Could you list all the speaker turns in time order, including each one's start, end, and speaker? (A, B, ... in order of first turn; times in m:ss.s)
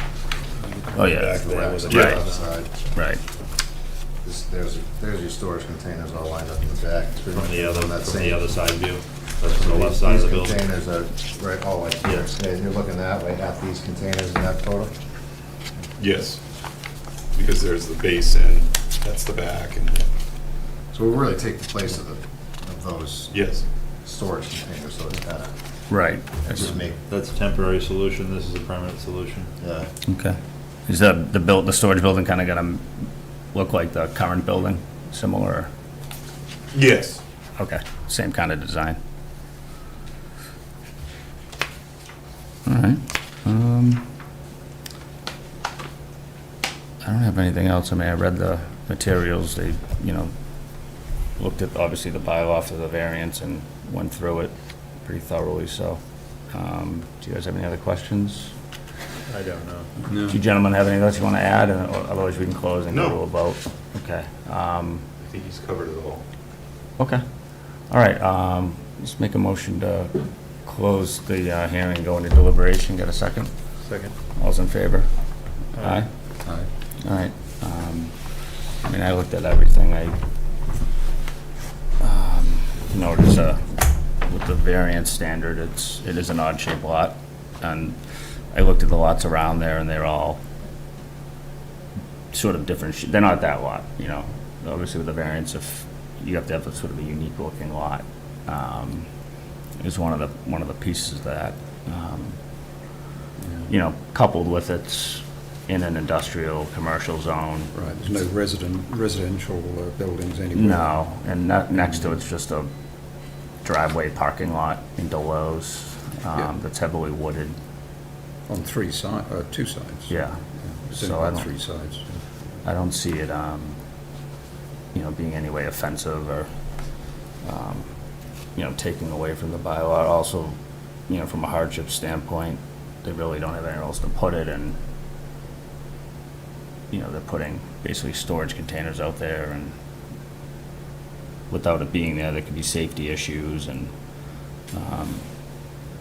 0:00.6-0:02.5 A
0:00.9-0:02.2 B
0:01.3-0:02.7 C
0:01.9-0:02.2 D
0:02.9-0:03.2 B
0:04.2-0:08.4 C
0:07.3-0:10.6 A
0:09.5-0:14.9 C
0:16.0-0:16.4 D
0:17.3-0:20.0 D
0:20.9-0:23.3 C
0:23.3-0:23.6 D
0:24.0-0:25.5 C
0:25.9-0:26.7 B
0:26.4-0:27.0 C
0:27.0-0:29.5 A
0:29.6-0:29.9 C
0:30.1-0:32.8 B
0:33.5-0:35.7 B
0:36.7-0:37.2 D
0:37.6-0:39.0 B
0:42.6-0:44.1 B
0:47.0-0:50.3 B
0:51.4-0:56.0 B
0:56.5-0:58.5 B
0:59.3-0:59.9 A
1:00.1-1:00.4 E
1:00.3-1:05.0 B
1:02.9-1:03.2 D
1:05.3-1:06.2 D
1:07.9-1:13.5 B
1:13.8-1:14.1 A
1:14.4-1:15.1 B
1:15.8-1:16.1 B
1:17.0-1:18.1 B
1:18.8-1:20.1 B
1:22.0-1:23.6 B
1:24.2-1:28.0 B
1:28.5-1:30.4 B
1:32.3-1:39.1 B
1:39.8-1:42.4 B
1:43.4-1:43.7 E
1:43.7-1:47.9 B
1:47.7-1:50.9 E
1:50.5-1:52.7 B
1:53.6-1:57.6 B
1:58.5-2:02.1 E
2:00.1-2:00.4 B
2:00.9-2:01.5 B
2:02.6-2:03.8 B
2:04.9-2:06.5 B
2:07.4-2:07.9 B
2:08.5-2:10.6 B
2:11.1-2:14.8 B
2:16.9-2:19.7 B
2:21.5-2:23.9 B
2:24.7-2:25.2 B